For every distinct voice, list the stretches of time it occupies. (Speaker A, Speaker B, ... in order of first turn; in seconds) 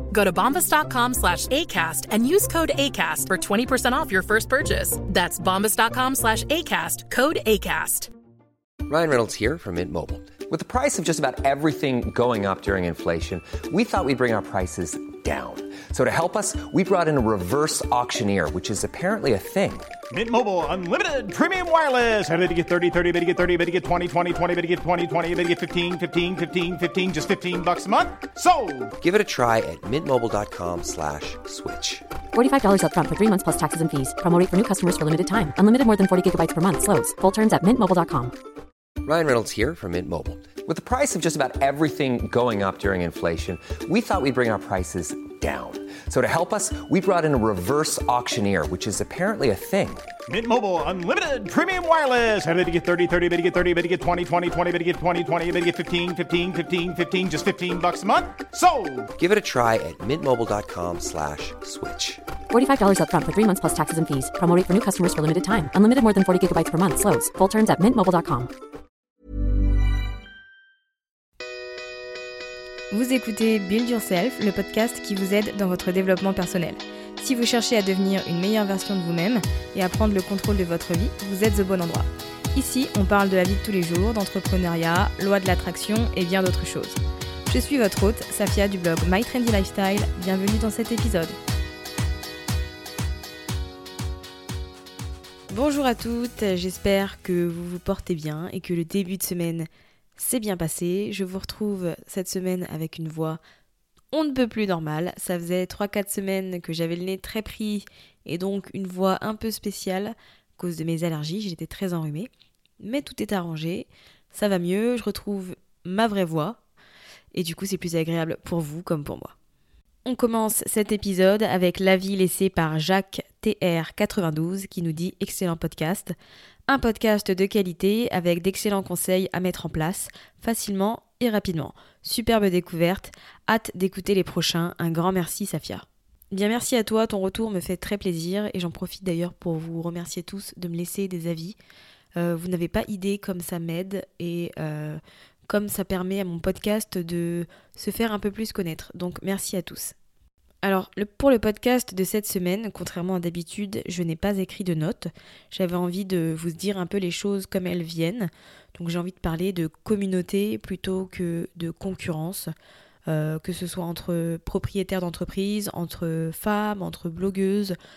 Speaker A: 0.1-8.1
Speaker B: 8.9-19.9, 29.0-32.0, 39.0-50.0, 59.1-62.2
Speaker C: 20.1-28.9, 50.3-59.0
Speaker D: 32.3-38.4, 62.5-68.5
Speaker E: 72.9-91.3, 95.5-103.4, 104.1-116.6, 117.3-119.3, 120.0-126.1, 126.7-141.6, 142.2-149.9, 150.6-162.5, 163.1-167.7